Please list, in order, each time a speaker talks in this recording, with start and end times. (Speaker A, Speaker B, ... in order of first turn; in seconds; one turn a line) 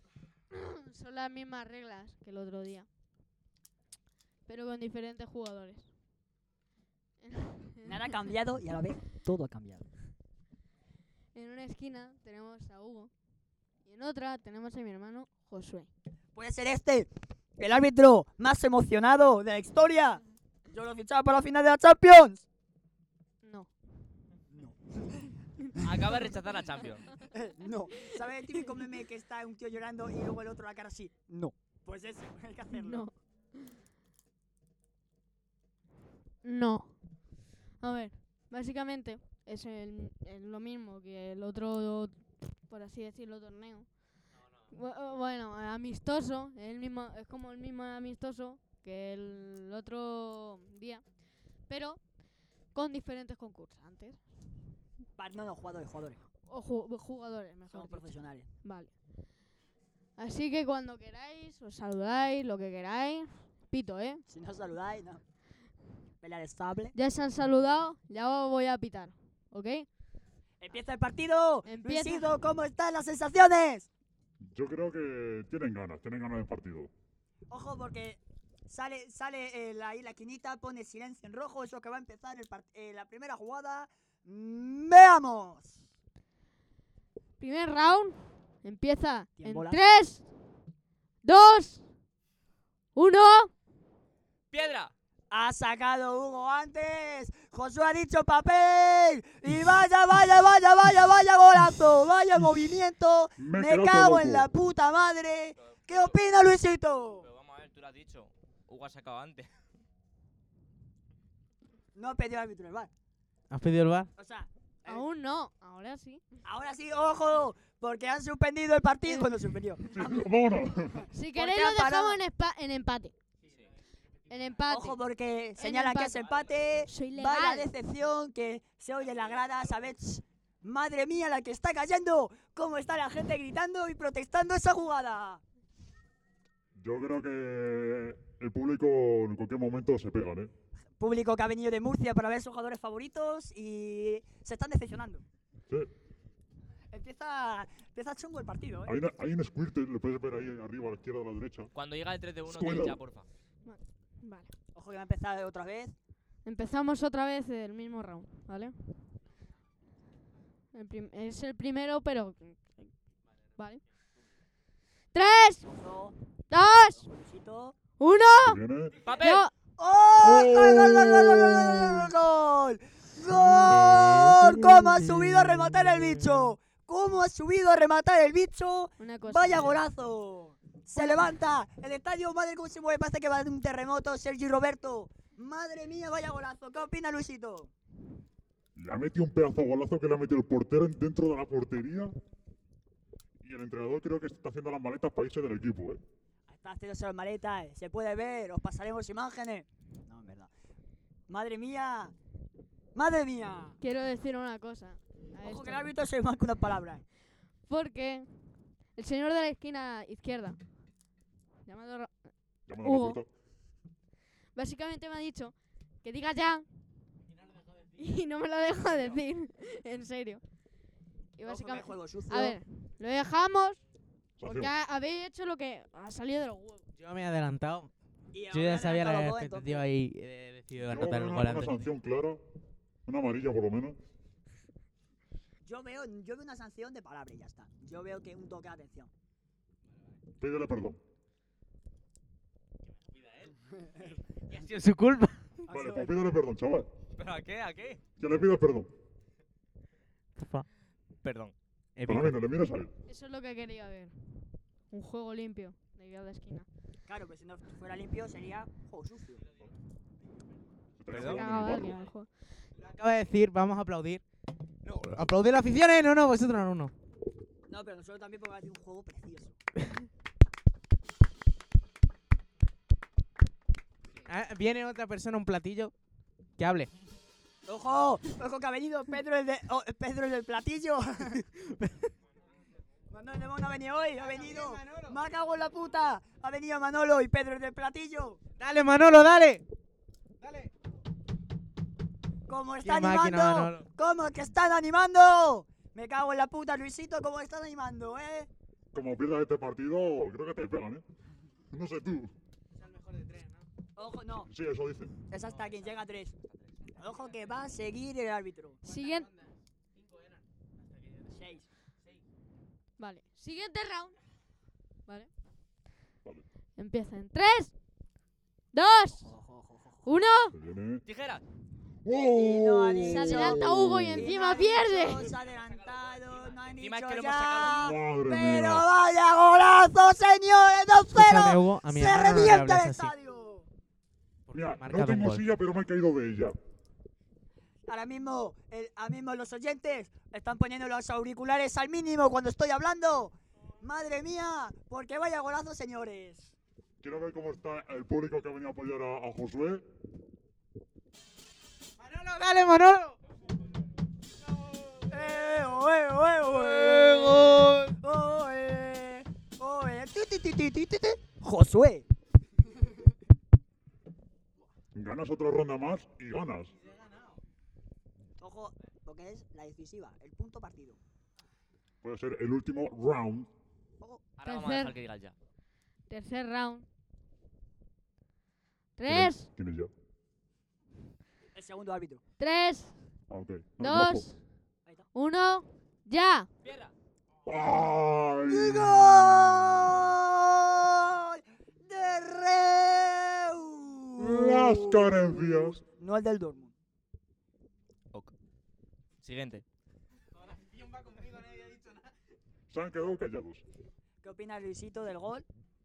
Speaker A: 0.5-2.9
Speaker A: 4.5-5.9
Speaker A: 7.2-8.0
Speaker B: 7.8-9.9
Speaker A: 11.3-13.1
Speaker A: 13.8-15.9
Speaker B: 16.4-22.5
Speaker A: 23.4-23.7
Speaker B: 24.5-25.9
Speaker C: 25.8-27.1
Speaker B: 27.3-33.1
Speaker A: 28.0-28.7
Speaker A: 32.7-33.8
Speaker A: 36.4-37.0
Speaker A: 37.8-44.0
Speaker A: 44.7-51.1
Speaker A: 51.7-52.0
Speaker A: 52.7-54.2
Speaker B: 55.2-56.2
Speaker A: 56.5-58.9
Speaker B: 57.7-58.5
Speaker A: 60.2-64.2
Speaker B: 64.3-65.2
Speaker B: 66.2-67.0
Speaker A: 66.9-69.9
Speaker B: 70.6-73.9
Speaker A: 71.7-72.3
Speaker D: 74.4-76.9
Speaker B: 77.5-85.8
Speaker A: 87.4-90.3
Speaker B: 89.4-89.8
Speaker A: 91.2-91.8
Speaker A: 93.0-93.5
Speaker C: 94.5-94.9
Speaker B: 95.3-107.3
Speaker D: 103.4-104.5
Speaker C: 105.7-106.2
Speaker C: 107.2-109.5
Speaker B: 112.0-112.9
Speaker E: 113.5-114.1
Speaker B: 114.2-115.1
Speaker A: 114.9-116.3
Speaker B: 116.4-120.2
Speaker D: 119.9-121.1
Speaker A: 121.1-123.1
Speaker B: 121.3-122.2
Speaker A: 124.3-125.0
Speaker B: 124.7-135.4
Speaker A: 125.6-126.3
Speaker A: 126.9-127.7
Speaker D: 136.8-140.5
Speaker B: 141.0-145.2
Speaker B: 146.9-148.9
Speaker D: 148.9-151.7
Speaker C: 151.8-153.3
Speaker D: 152.5-153.0
Speaker A: 153.6-154.5
Speaker B: 154.7-156.0
Speaker A: 156.4-158.9
Speaker A: 160.7-162.9
Speaker A: 163.6-163.8
Speaker A: 165.1-165.7
Speaker B: 165.6-166.2
Speaker A: 166.5-167.1
Speaker B: 167.0-167.8
Speaker A: 168.0-168.6
Speaker D: 168.4-169.0
Speaker C: 169.0-169.4
Speaker A: 169.1-169.5
Speaker B: 169.8-187.7
Speaker D: 170.2-172.0
Speaker D: 173.3-173.8
Speaker E: 173.7-176.4
Speaker A: 179.0-179.8
Speaker A: 181.0-181.3
Speaker D: 188.8-192.1
Speaker D: 193.4-196.0
Speaker B: 196.5-200.5
Speaker B: 201.3-202.1
Speaker B: 202.9-203.8
Speaker A: 203.8-205.9
Speaker B: 205.4-207.1
Speaker A: 207.7-210.6
Speaker A: 211.7-212.2
Speaker D: 212.7-213.3
Speaker A: 212.8-213.2
Speaker A: 214.6-216.7
Speaker A: 217.8-220.4
Speaker A: 221.4-223.8
Speaker B: 221.4-222.6
Speaker D: 224.4-224.7
Speaker A: 224.4-226.8
Speaker E: 227.0-227.9
Speaker B: 228.3-229.9
Speaker E: 228.5-231.9
Speaker D: 230.8-232.4
Speaker D: 233.1-234.0
Speaker B: 235.7-239.1
Speaker D: 240.4-241.0
Speaker E: 244.5-245.5
Speaker B: 245.7-246.2
Speaker D: 245.7-246.9
Speaker C: 247.2-248.0
Speaker D: 248.2-248.9
Speaker E: 250.4-250.7
Speaker C: 251.2-251.5
Speaker E: 252.0-252.4
Speaker D: 252.1-252.9
Speaker A: 253.1-254.2
Speaker A: 254.9-256.7
Speaker B: 257.1-259.4
Speaker D: 261.0-262.1
Speaker C: 261.1-261.4
Speaker A: 261.2-262.3
Speaker E: 262.8-264.2
Speaker E: 264.9-266.9
Speaker B: 267.7-269.6
Speaker E: 274.2-275.9
Speaker E: 276.6-276.9
Speaker B: 277.7-281.4
Speaker E: 281.5-282.1
Speaker B: 283.1-288.4
Speaker E: 284.3-285.1
Speaker E: 288.6-289.6
Speaker E: 290.4-290.7
Speaker B: 292.5-298.5
Speaker E: 292.8-293.9
Speaker D: 298.9-301.0
Speaker D: 301.7-302.3
Speaker E: 302.9-303.5
Speaker B: 304.0-304.5
Speaker D: 304.5-305.1
Speaker B: 305.3-306.3
Speaker C: 306.5-306.9
Speaker B: 307.0-308.8
Speaker A: 308.9-309.3
Speaker B: 311.3-311.7
Speaker A: 313.0-314.2
Speaker A: 316.8-317.7
Speaker A: 318.7-319.3
Speaker B: 319.2-320.1
Speaker A: 320.1-320.6
Speaker D: 320.5-321.0
Speaker C: 321.1-321.4
Speaker D: 322.1-324.3
Speaker B: 322.3-333.7
Speaker A: 323.1-325.3
Speaker C: 326.6-327.9
Speaker D: 327.7-328.9
Speaker E: 331.1-333.1
Speaker E: 334.5-335.4
Speaker D: 334.5-336.6
Speaker B: 337.9-346.6
Speaker D: 347.0-349.8
Speaker E: 352.0-353.2
Speaker B: 355.1-362.1
Speaker E: 356.8-357.9
Speaker D: 364.9-366.8
Speaker B: 368.4-371.0
Speaker D: 372.0-373.5
Speaker C: 374.4-375.4
Speaker A: 374.4-375.0
Speaker A: 376.1-376.9
Speaker A: 379.0-379.5
Speaker D: 379.1-379.9
Speaker B: 381.6-382.2
Speaker A: 382.4-382.9
Speaker D: 383.3-384.3
Speaker A: 383.8-384.4
Speaker A: 385.1-386.5
Speaker C: 386.6-386.9
Speaker D: 387.4-390.2
Speaker B: 388.5-396.7
Speaker D: 394.2-395.8
Speaker C: 399.2-399.6
Speaker E: 400.8-402.0
Speaker D: 402.7-403.6
Speaker B: 404.2-405.5